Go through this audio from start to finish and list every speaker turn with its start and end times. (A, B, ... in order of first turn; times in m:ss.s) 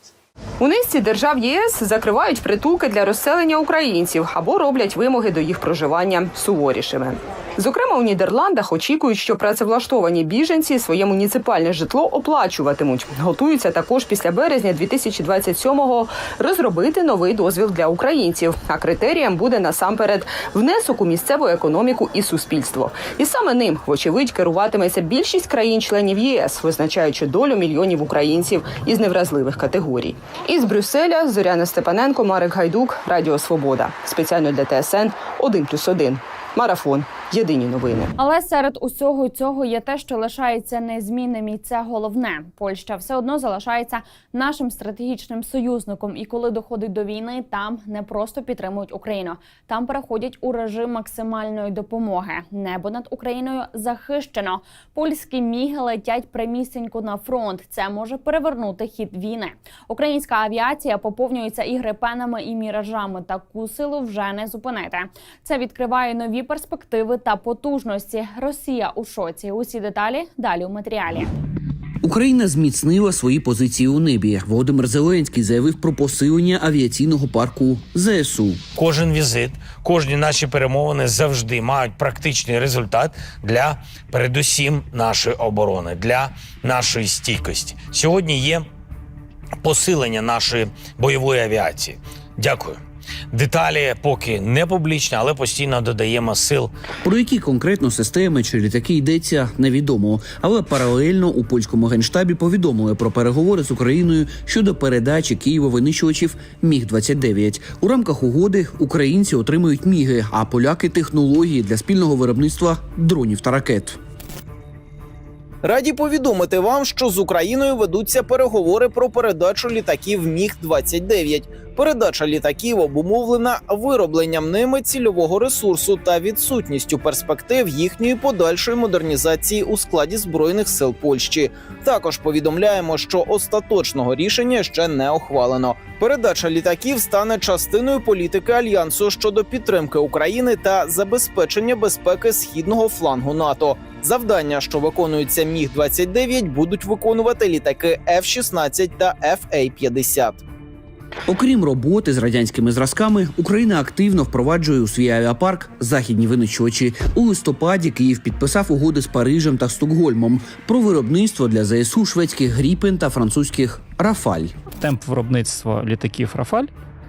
0:00.6-0:38.1 A
0:38.2-1:11.3 B
1:12.0-1:18.6 C
1:18.8-1:28.7 D
1:29.6-1:32.8 D
1:33.3-1:36.7 D
1:37.0-1:54.0 C
1:55.6-2:30.4 E
2:31.3-2:44.5 C
2:44.7-2:46.7 F